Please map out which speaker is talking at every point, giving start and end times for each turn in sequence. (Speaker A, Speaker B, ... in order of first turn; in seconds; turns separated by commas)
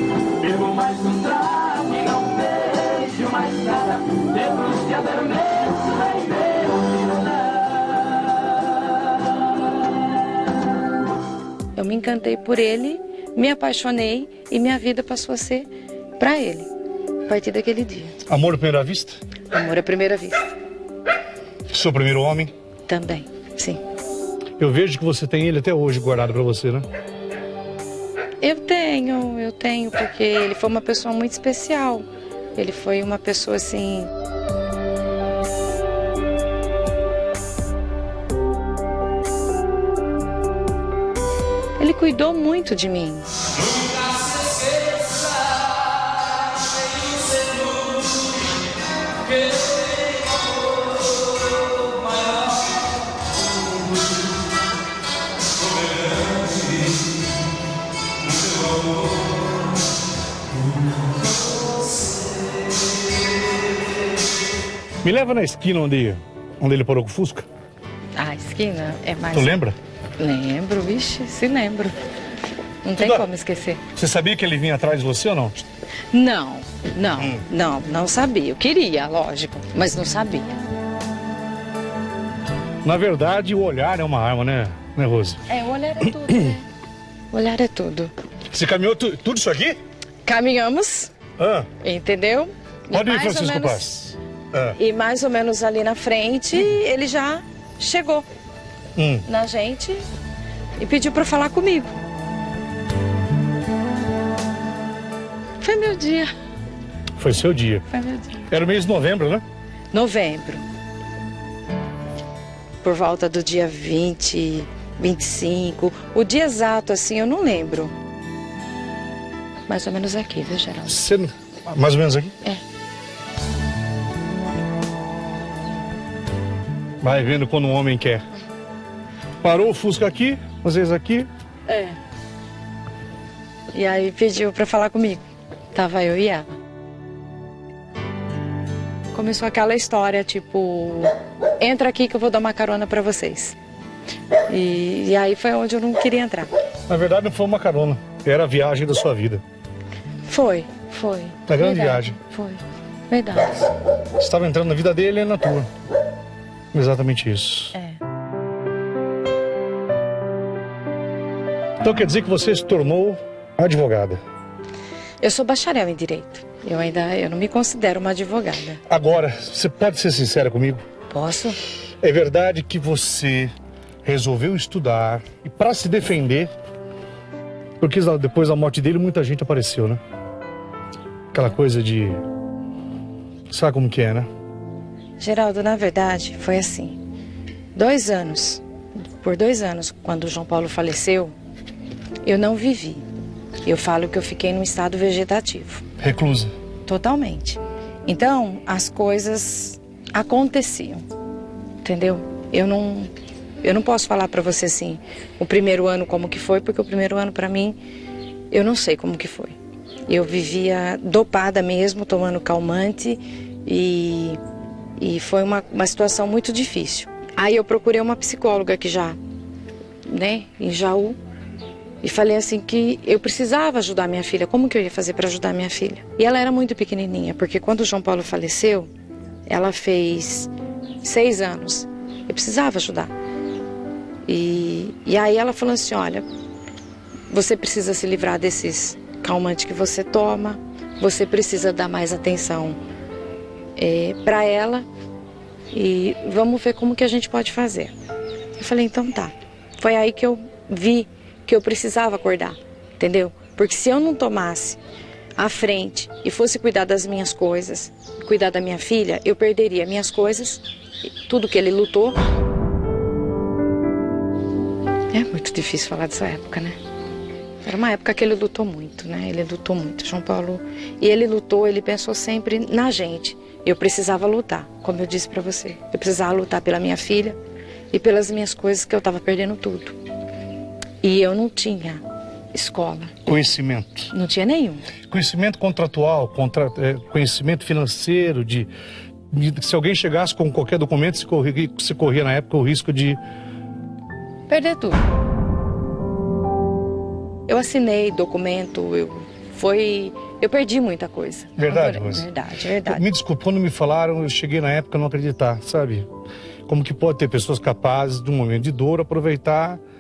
Speaker A: 0.4-6.3, Speaker B: 11.8-16.7, Speaker B: 17.3-18.2, Speaker C: 18.3-19.2, Speaker B: 19.5-20.5, Speaker C: 21.7-22.5, Speaker B: 22.9-23.8, Speaker C: 24.6-26.9, Speaker B: 28.4-34.1, Speaker B: 41.8-43.3, Speaker A: 43.6-45.6, Speaker A: 47.3-47.7, Speaker A: 49.3-49.9, Speaker C: 65.0-67.5, Speaker B: 68.2-69.5, Speaker C: 69.3-69.8, Speaker B: 70.2-72.0, Speaker B: 72.8-73.8, Speaker C: 73.0-73.2, Speaker C: 74.0-75.7, Speaker B: 76.1-80.6, Speaker C: 77.2-77.4, Speaker C: 82.8-85.4, Speaker B: 85.5-86.6, Speaker B: 87.3-88.1, Speaker C: 88.5-89.8, Speaker B: 90.2-91.1, Speaker C: 91.4-91.7, Speaker B: 91.8-93.9, Speaker C: 92.9-94.8, Speaker B: 94.8-98.3, Speaker C: 99.0-99.2, Speaker B: 99.3-100.0, Speaker B: 100.8-101.9, Speaker B: 105.6-106.3, Speaker C: 107.2-107.8, Speaker B: 107.9-108.4, Speaker C: 108.5-109.4, Speaker B: 109.9-110.6, Speaker B: 112.8-117.9, Speaker B: 119.7-121.0, Speaker C: 120.9-122.3, Speaker C: 127.0-128.2, Speaker C: 129.4-131.3, Speaker B: 131.7-131.9, Speaker B: 133.7-136.5, Speaker B: 139.1-143.6, Speaker B: 144.5-146.5, Speaker C: 146.9-149.4, Speaker B: 150.3-153.7, Speaker C: 151.5-152.2, Speaker C: 154.2-155.7, Speaker C: 156.7-157.8, Speaker B: 157.8-158.0, Speaker C: 161.8-164.2, Speaker B: 165.2-168.8, Speaker C: 168.9-170.8, Speaker B: 171.1-171.6, Speaker C: 172.0-173.5, Speaker C: 174.1-176.5, Speaker C: 177.8-180.0, Speaker C: 181.3-182.2, Speaker C: 183.5-184.3, Speaker B: 185.2-187.0, Speaker B: 187.8-191.3, Speaker B: 192.2-193.1, Speaker B: 193.7-195.8, Speaker C: 196.0-196.5, Speaker B: 196.9-201.1, Speaker B: 201.8-207.8, Speaker B: 208.5-214.4, Speaker B: 215.0-219.2, Speaker B: 220.1-221.2, Speaker B: 222.0-228.9, Speaker B: 229.5-230.5, Speaker B: 231.0-233.1, Speaker B: 234.3-236.3, Speaker B: 237.3-242.8, Speaker B: 243.8-244.9, Speaker B: 245.7-247.9, Speaker B: 248.6-254.8, Speaker B: 255.4-260.6, Speaker B: 261.2-262.2, Speaker B: 265.1-266.8, Speaker B: 267.6-277.4, Speaker B: 277.9-280.0, Speaker B: 281.0-283.1, Speaker C: 283.3-284.1, Speaker B: 284.1-284.9, Speaker C: 285.1-288.7, Speaker C: 289.3-293.2, Speaker B: 294.5-295.0, Speaker B: 297.5-303.1, Speaker C: 301.6-302.3, Speaker C: 302.9-306.1, Speaker C: 306.7-309.8